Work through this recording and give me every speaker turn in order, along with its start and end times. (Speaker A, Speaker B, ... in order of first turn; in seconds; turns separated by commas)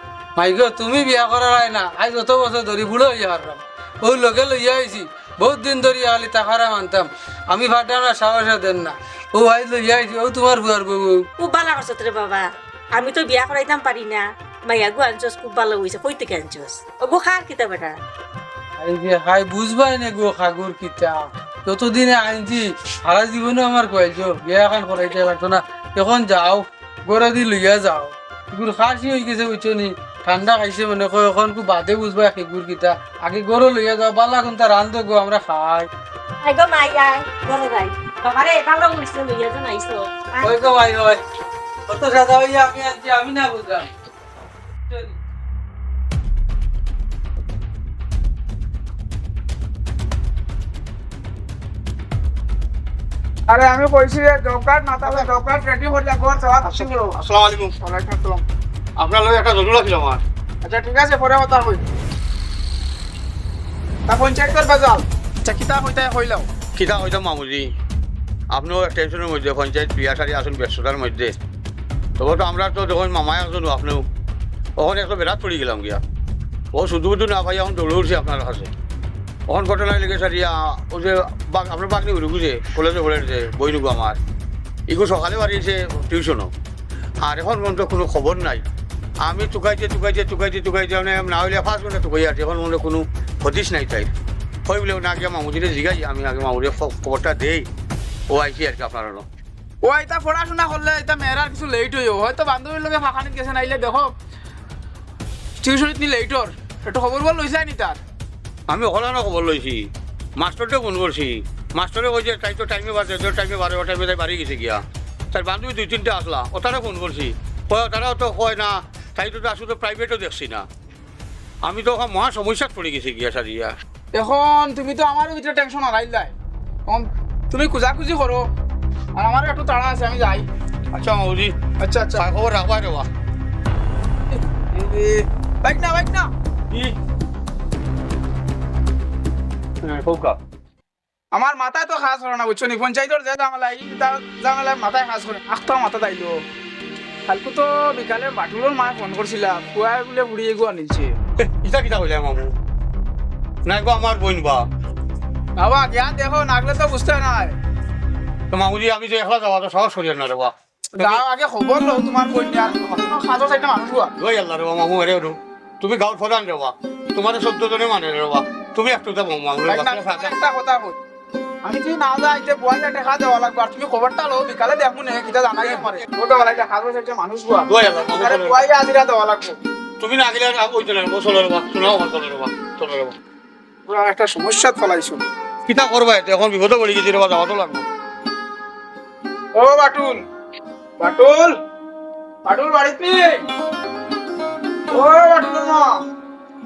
Speaker A: 0.4-11.3, Speaker B: 11.4-17.9, Speaker A: 18.8-35.9, Speaker B: 36.4-40.5, Speaker A: 40.4-41.2, Speaker A: 41.9-43.9, Speaker A: 44.9-45.2, Speaker C: 53.5-57.1, Speaker D: 56.6-57.7, Speaker C: 57.8-58.4, Speaker D: 59.0-60.2, Speaker C: 60.6-61.8, Speaker C: 64.1-66.5, Speaker D: 66.8-67.7, Speaker D: 68.5-71.3, Speaker D: 72.2-74.1, Speaker D: 74.8-76.0, Speaker D: 76.7-78.7, Speaker D: 79.5-84.2, Speaker D: 84.9-86.5, Speaker D: 87.2-88.6, Speaker D: 89.2-94.1, Speaker D: 94.7-97.7, Speaker D: 98.3-99.2, Speaker C: 99.8-104.1, Speaker C: 105.6-108.0, Speaker D: 108.7-120.7, Speaker D: 121.6-123.7, Speaker C: 124.1-126.3, Speaker C: 126.9-128.5, Speaker C: 129.2-130.5, Speaker D: 130.9-131.6, Speaker C: 131.8-132.2, Speaker D: 132.2-133.1, Speaker C: 134.3-136.3, Speaker D: 136.7-136.9, Speaker D: 139.8-140.4, Speaker C: 141.3-146.3, Speaker C: 147.3-151.1, Speaker D: 151.4-152.6, Speaker D: 153.7-154.6, Speaker C: 155.6-157.6, Speaker D: 158.5-161.2, Speaker C: 161.0-164.1, Speaker D: 164.2-170.3, Speaker C: 169.7-170.9, Speaker C: 171.6-179.6, Speaker D: 175.6-175.9, Speaker D: 177.7-178.6, Speaker D: 180.0-183.2, Speaker C: 183.9-185.2, Speaker D: 185.7-187.8, Speaker C: 189.6-190.2, Speaker C: 191.0-191.6, Speaker C: 192.4-193.5, Speaker C: 194.9-196.0